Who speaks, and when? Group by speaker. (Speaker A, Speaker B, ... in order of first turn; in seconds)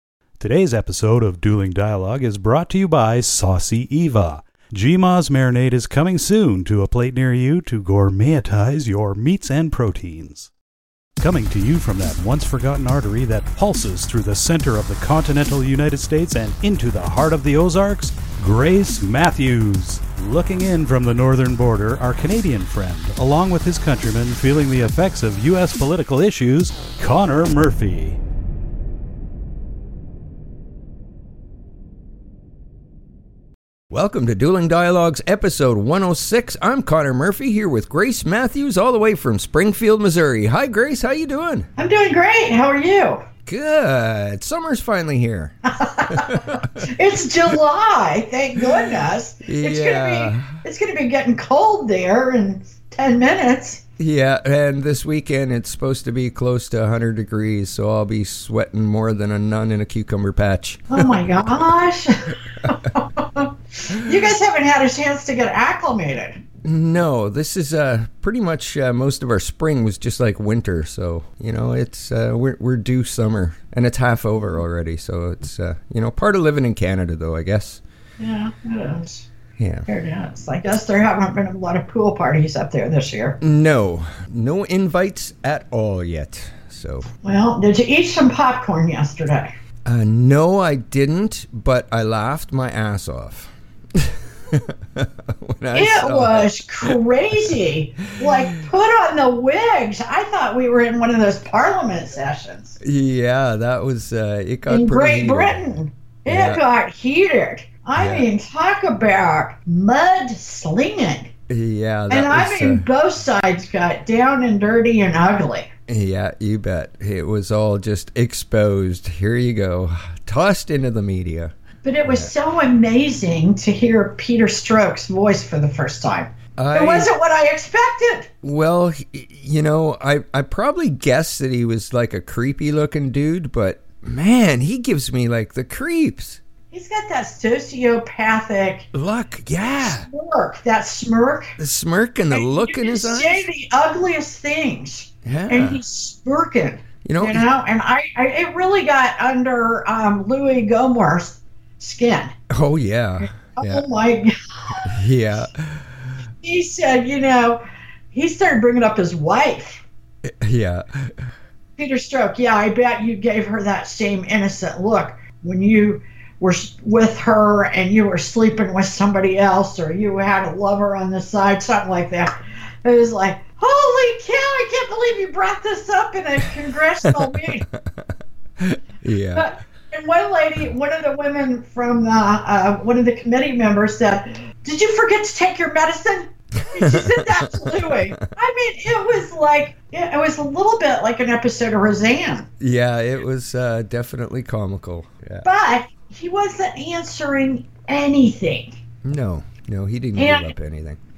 Speaker A: 0.4-10.5, 11.2-28.2
Speaker B: 33.9-41.7, 43.5-45.6, 46.1-46.8, 48.6-48.9, 49.5-50.5, 54.0-61.6, 66.6-77.8, 79.6-79.9, 83.4-87.1, 89.9-97.0, 102.8-105.6, 106.3-106.6, 108.0-108.3, 111.5-112.9, 115.9-121.5, 122.0-122.3, 126.6-127.1, 128.4-136.4, 138.9-140.1, 141.6-143.4, 145.2-145.8, 147.0-147.5, 152.5-153.8, 154.9-156.0, 160.2-161.3, 178.6-179.5, 186.8-188.1, 192.6-195.4, 199.0-201.0
Speaker C: 41.8-43.2, 45.7-53.8, 60.9-66.4, 78.2-79.3, 79.9-83.4, 87.2-89.5, 95.7-102.8, 104.7-111.3, 112.1-115.7, 121.8-128.3, 136.7-138.9, 139.8-141.6, 142.3-152.3, 153.3-155.0, 156.4-159.8, 161.8-172.3, 172.8-177.7, 179.3-192.5, 195.4-198.8, 200.2-200.5